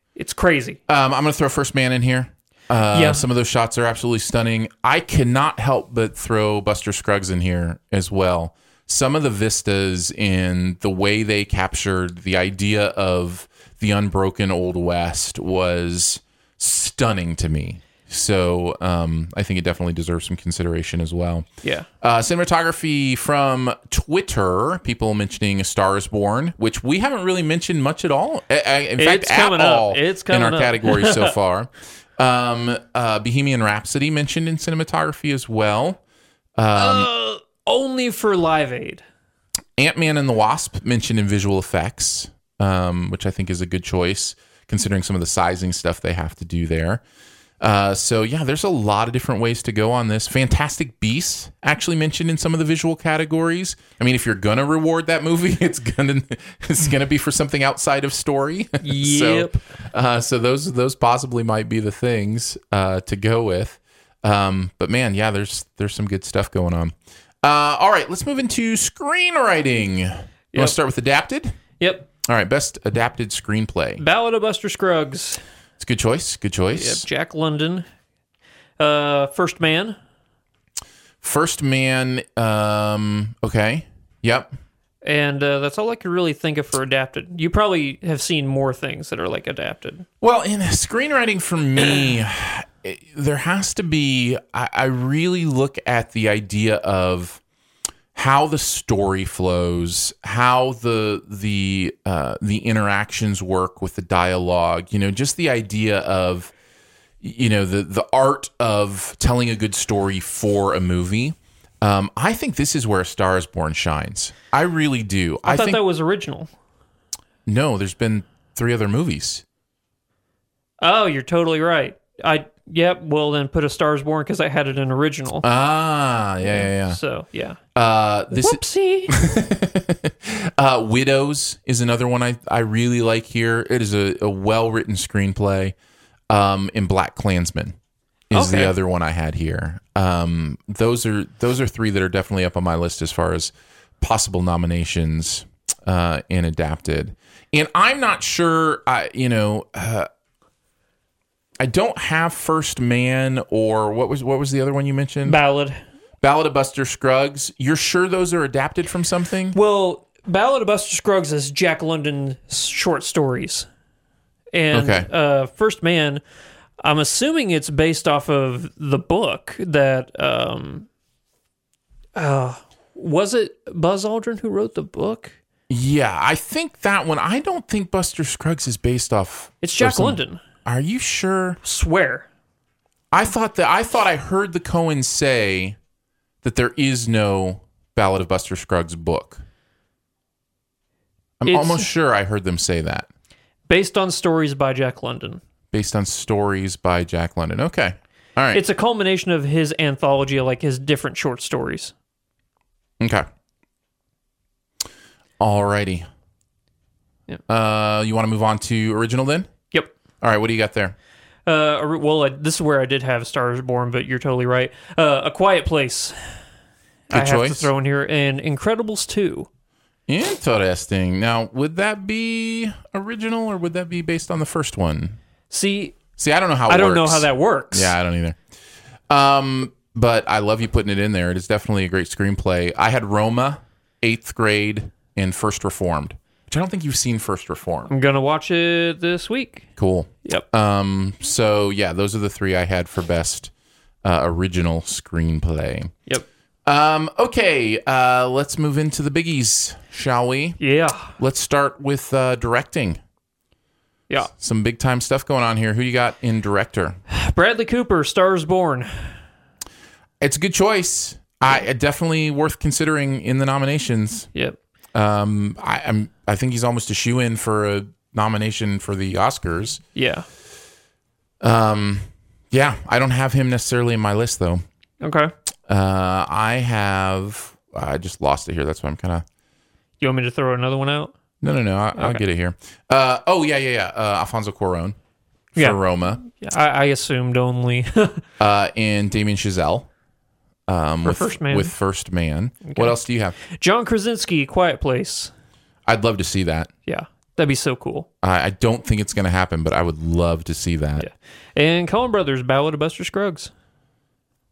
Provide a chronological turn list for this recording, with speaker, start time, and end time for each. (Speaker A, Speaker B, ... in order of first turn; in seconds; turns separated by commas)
Speaker A: 0.1-0.8, Speaker B: 0.9-21.5, Speaker A: 2.9-3.2, Speaker B: 22.0-36.0, Speaker A: 29.0-31.3, Speaker B: 36.6-37.1, Speaker A: 36.7-39.0, Speaker B: 39.8-47.0, Speaker B: 47.6-71.6, Speaker A: 58.8-59.6, Speaker A: 71.8-72.1, Speaker B: 72.2-74.0, Speaker A: 74.0-75.4, Speaker B: 75.8-77.0, Speaker A: 76.7-77.8, Speaker A: 78.8-80.0, Speaker B: 81.2-84.5, Speaker A: 85.0-90.0, Speaker B: 90.2-97.4, Speaker B: 98.1-106.5, Speaker B: 107.2-115.8, Speaker A: 115.5-116.5, Speaker B: 117.5-119.4, Speaker A: 120.8-125.5, Speaker B: 125.4-127.0, Speaker A: 126.4-127.6, Speaker B: 127.7-135.7, Speaker A: 128.3-129.2, Speaker B: 136.3-137.8, Speaker B: 138.3-150.1, Speaker A: 138.3-138.7, Speaker B: 151.6-155.4, Speaker A: 155.2-155.8, Speaker B: 156.2-159.6, Speaker A: 159.5-163.7, Speaker A: 164.5-166.2, Speaker B: 164.7-165.1, Speaker A: 166.8-170.9, Speaker A: 172.2-175.3, Speaker B: 175.7-181.6, Speaker A: 179.6-180.4, Speaker A: 181.6-182.3, Speaker B: 183.1-185.8, Speaker B: 186.4-189.4, Speaker B: 191.4-193.1, Speaker A: 191.5-191.9, Speaker A: 193.7-195.4, Speaker B: 195.7-198.6, Speaker A: 198.5-201.9, Speaker B: 203.0-203.3, Speaker B: 205.4-206.1, Speaker B: 207.5-209.5, Speaker B: 210.2-210.9, Speaker A: 211.4-216.2, Speaker A: 217.1-219.5, Speaker B: 217.1-217.7, Speaker B: 220.1-225.2, Speaker A: 225.5-226.0, Speaker B: 226.2-228.4, Speaker A: 226.7-227.9, Speaker B: 229.1-237.9, Speaker A: 237.9-239.7, Speaker B: 239.8-243.5, Speaker B: 244.0-245.9, Speaker B: 246.7-250.6, Speaker A: 250.6-251.1, Speaker B: 251.2-253.0, Speaker B: 254.3-257.0, Speaker A: 257.1-259.1, Speaker B: 260.2-264.3, Speaker B: 264.9-269.8, Speaker A: 269.9-270.2, Speaker B: 271.4-274.6, Speaker A: 275.0-275.3, Speaker B: 275.7-279.2, Speaker A: 280.0-281.1, Speaker B: 281.4-284.9, Speaker A: 281.9-282.2, Speaker B: 285.5-286.2, Speaker A: 285.6-288.2, Speaker B: 288.4-289.9, Speaker B: 290.7-293.4, Speaker A: 291.0-291.7, Speaker A: 292.6-292.9, Speaker A: 293.5-295.3, Speaker B: 295.9-296.7, Speaker A: 296.9-298.1, Speaker B: 298.2-301.1, Speaker A: 301.0-303.5